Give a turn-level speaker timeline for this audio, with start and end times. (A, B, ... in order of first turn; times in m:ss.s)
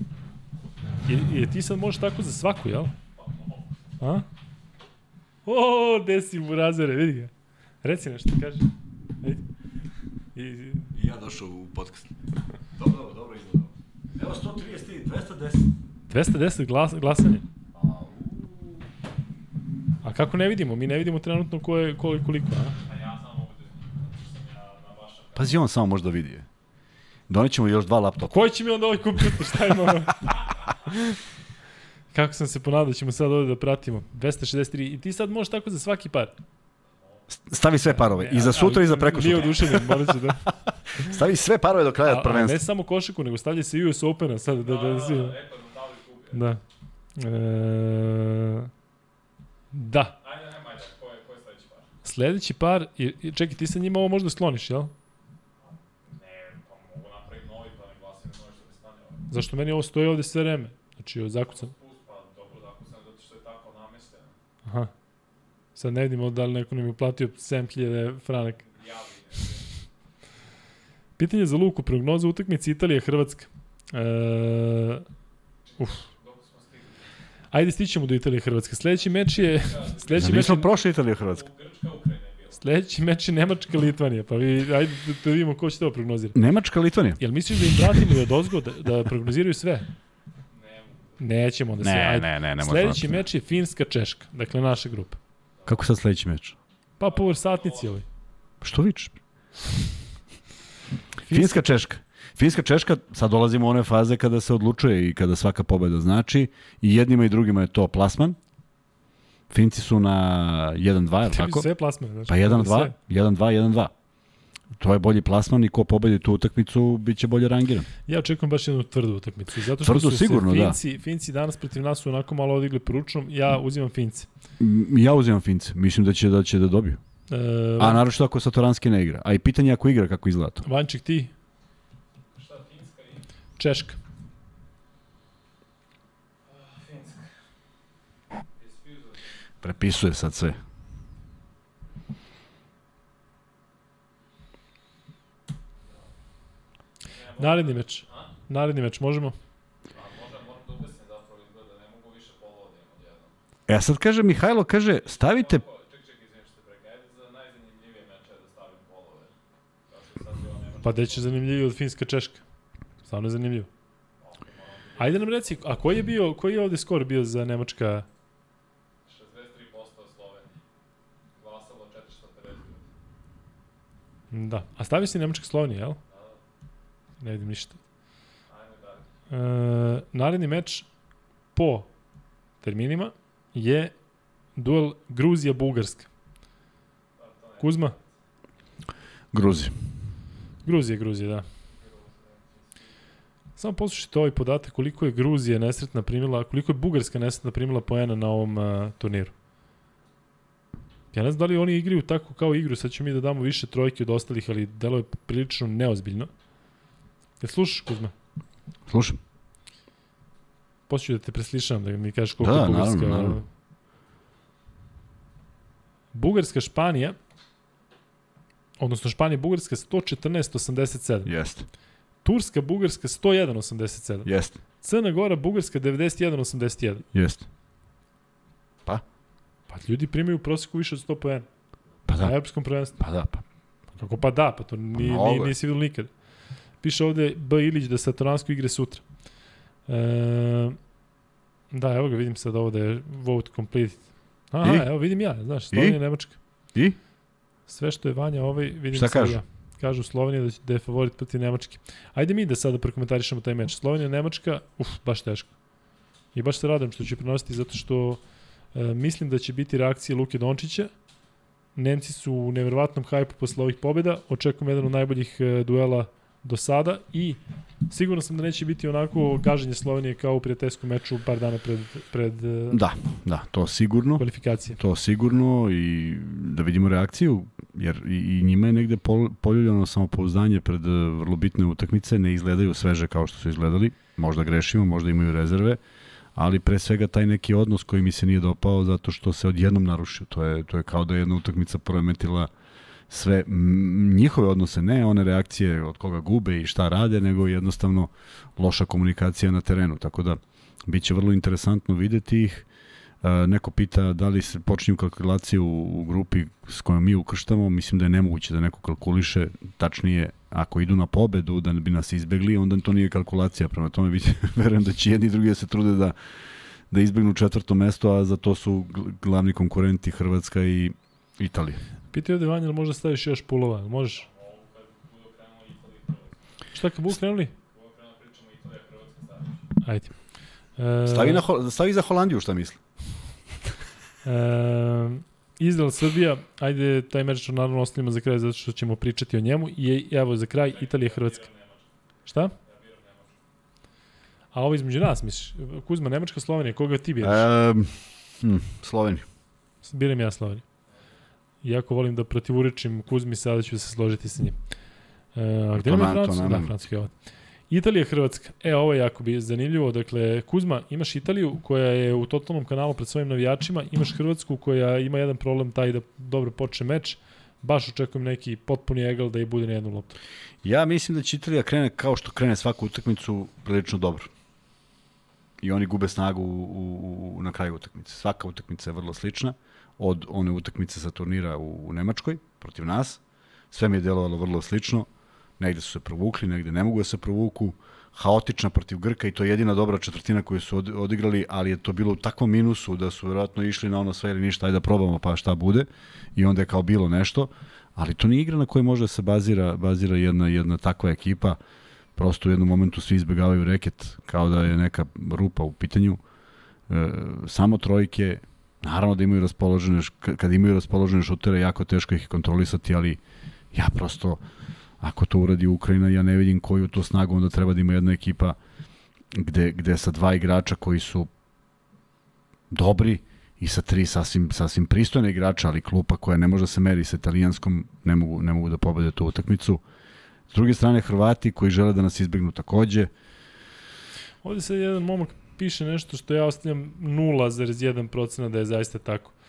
0:01.0-0:02.9 A
0:03.2-0:04.0 B
0:04.0-0:04.2 A
0:05.4-0:07.3 A
0:07.8-0:08.7 A
0:10.3-0:10.9 A
0:10.9-0:12.1 C
0:12.8-0:15.7 C
0:16.1-0:17.4 A
0:17.7-0:18.8 C
0:20.0-0:22.7 A
0:22.8-0:25.6 B
0:25.4-0:26.5 C
0:27.3-0:28.5 C
0:28.3-0:30.3 A
0:30.8-0:31.2 A
0:32.1-0:36.3 A
0:37.3-0:42.6 C
0:37.8-0:40.4 A
0:42.0-0:45.4 A
0:44.6-0:46.4 B
0:46.3-0:46.6 A
0:47.2-0:48.7 A
0:49.7-0:50.2 A
0:50.2-0:51.9 B
0:52.0-0:54.9 A
0:56.1-0:59.3 B
0:59.3-1:01.7 A
1:01.5-1:04.3 B
1:04.6-1:04.9 A
1:05.8-1:08.6 A
1:08.7-1:09.6 B
1:11.2-1:15.0 A
1:15.8-1:17.0 B
1:15.8-1:16.0 A
1:17.5-1:20.6 A
1:19.3-1:22.6 B
1:20.1-1:21.4 C
1:22.6-1:26.4 A
1:26.3-1:28.1 C
1:27.2-1:29.9 A
1:30.5-1:31.2 B
1:31.2-1:35.2 A
1:31.8-1:33.2 C
1:35.6-1:36.6 C
1:37.0-1:38.0 A
1:37.0-1:38.0 B
1:38.6-1:39.1 C
1:41.3-1:41.6 A
1:41.3-1:48.4 C
1:49.5-1:51.7 C
1:51.3-1:52.9 A
1:52.3-1:53.9 C
1:54.8-1:57.9 C
1:58.1-2:04.3 A
1:59.8-2:00.8 C
2:04.6-2:07.0 C
2:07.3-2:08.0 A
2:07.8-2:10.6 C
2:10.6-2:11.3 A
2:12.3-2:13.2 B
2:13.6-2:14.0 A
2:16.5-2:17.3 B
2:18.6-2:19.2 B
2:19.6-2:20.6 C
2:27.0-2:28.3 B
2:27.4-2:29.4 A
2:29.9-2:33.3 B
2:33.7-2:35.6 C
2:35.1-2:39.3 B
2:39.9-2:41.3 B
2:40.8-2:42.4 A
2:43.0-2:43.7 A
2:44.2-2:45.6 B
2:45.0-2:48.0 A
2:49.0-2:50.6 B
2:51.4-2:52.8 B
2:54.3-2:56.0 A
2:56.1-2:56.4 B
2:57.2-2:57.8 A
2:58.5-2:59.1 B
2:59.3-3:00.9 A
3:01.5-3:01.9 A
3:02.6-3:03.9 A
3:04.6-3:06.1 A
3:07.2-3:08.0 B
3:07.6-3:07.9 A
3:09.3-3:09.7 C
3:10.6-3:11.4 A
3:11.8-3:12.8 B
3:13.6-3:19.3 A
3:21.1-3:26.3 A
3:27.4-3:28.1 A
3:28.9-3:29.2 C
3:30.9-3:33.4 A
3:32.4-3:33.4 C
3:36.1-3:37.2 A
3:38.8-3:41.3 A
3:41.2-3:41.6 C
3:42.2-3:47.0 A
3:44.2-3:44.6 C
3:47.1-3:47.4 C
3:49.7-3:51.5 A
3:52.1-3:52.3 C
3:52.2-3:53.0 A
3:53.0-3:53.4 C
3:54.0-3:56.1 A
3:55.0-3:55.5 C
3:56.8-3:59.0 A
3:59.9-4:00.8 A
4:01.7-4:06.4 A
4:05.7-4:06.0 C
4:07.7-4:15.5 A
4:08.9-4:09.4 C
4:16.3-4:18.2 A
4:18.7-4:20.9 A
4:21.8-4:32.8 A
4:32.7-4:34.2 C
4:34.2-4:34.8 A
4:34.8-4:45.8 C
4:46.4-4:52.5 C
4:53.1-5:02.6 C
5:03.2-5:16.1 C
5:16.9-5:21.8 C
5:22.1-5:24.2 A
5:24.2-5:26.3 B
5:26.7-5:27.5 A
5:27.7-5:29.6 B
5:29.8-5:30.2 A
5:30.8-5:31.4 A
5:31.1-5:32.8 C
5:34.2-5:41.5 A
5:40.6-5:41.8 B
5:42.3-5:42.5 A
5:42.6-5:43.3 B
5:44.5-5:47.4 A
5:47.2-5:49.2 C
5:49.8-5:50.6 A
5:51.6-5:54.6 A
5:55.3-5:57.1 A
5:55.8-5:56.7 C
5:57.7-6:10.2 A
6:10.6-6:14.3 C
6:15.6-6:25.1 C
6:25.6-6:41.6 C
6:42.2-6:46.2 C
6:46.9-6:53.2 C
6:53.7-6:54.4 C
6:55.0-6:58.6 C
6:59.3-7:01.3 C
7:02.7-7:09.8 C
7:10.5-7:13.1 C
7:14.4-7:19.3 A